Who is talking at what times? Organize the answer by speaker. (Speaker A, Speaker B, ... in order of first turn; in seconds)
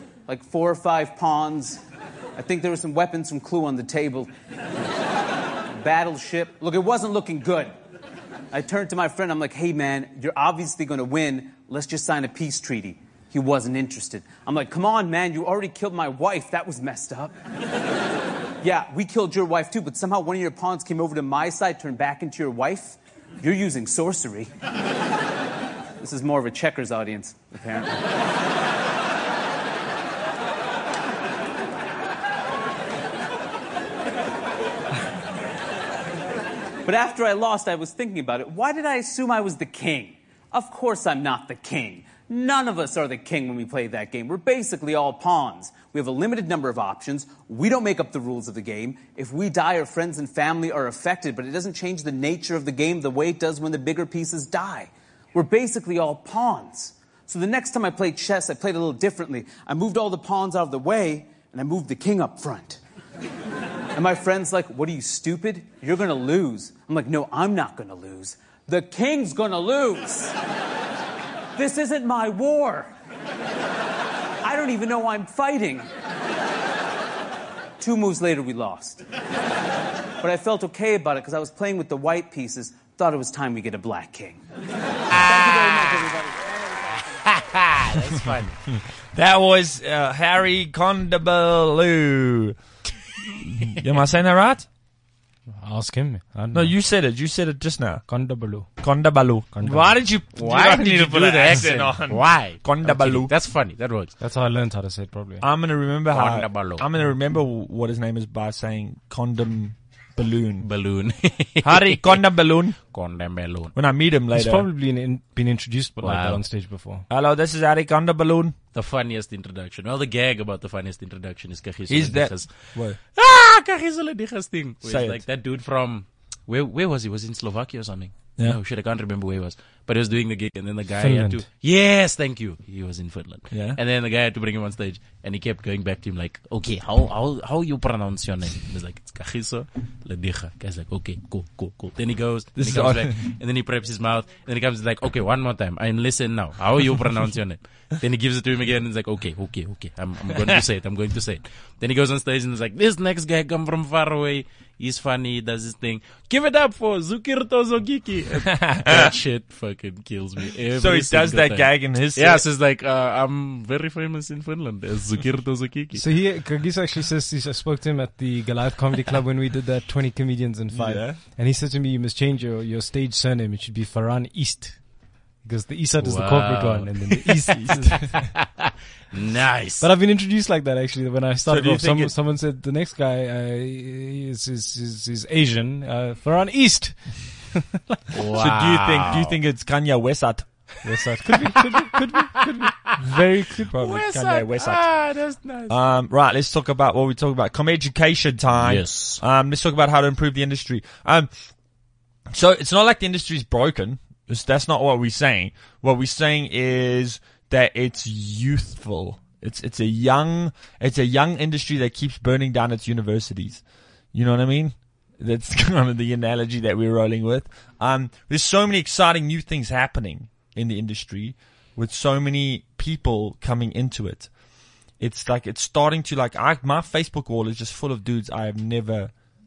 Speaker A: 0.3-1.8, 2.4-4.3, 5.7-7.7, 8.5-17.4, 18.6-24.5, 26.0-28.0, 36.9-62.8, 63.9-70.3, 71.6-72.9, 74.4-75.9, 77.8-79.0, 80.2-84.4, 85.1-86.5
Speaker B: 87.2-88.6, 100.4-104.1, 106.1-106.9, 110.6-112.2, 112.9-113.7, 116.0-116.4, 118.7-166.0, 176.0-179.9, 188.1-189.4, 193.8-195.8, 198.6-199.2
Speaker C: 88.7-92.6, 93.4-94.7, 96.5-98.0, 98.8-103.3, 105.4-110.7, 111.6-112.8, 113.8-114.7, 117.1-118.6, 121.9-123.0, 124.8-125.2, 133.5-133.8, 142.6-143.1, 158.5-159.1, 160.7-162.4, 170.7-171.2, 177.6-178.1, 181.5-182.1, 188.3-190.7, 193.0-195.1, 195.7-201.3, 202.3-224.3, 225.0-229.1
Speaker D: 95.6-96.8, 98.1-98.7, 99.5-100.0, 104.2-105.5, 114.3-117.0, 131.0-131.4, 165.9-178.2, 179.8-188.0, 190.8-193.7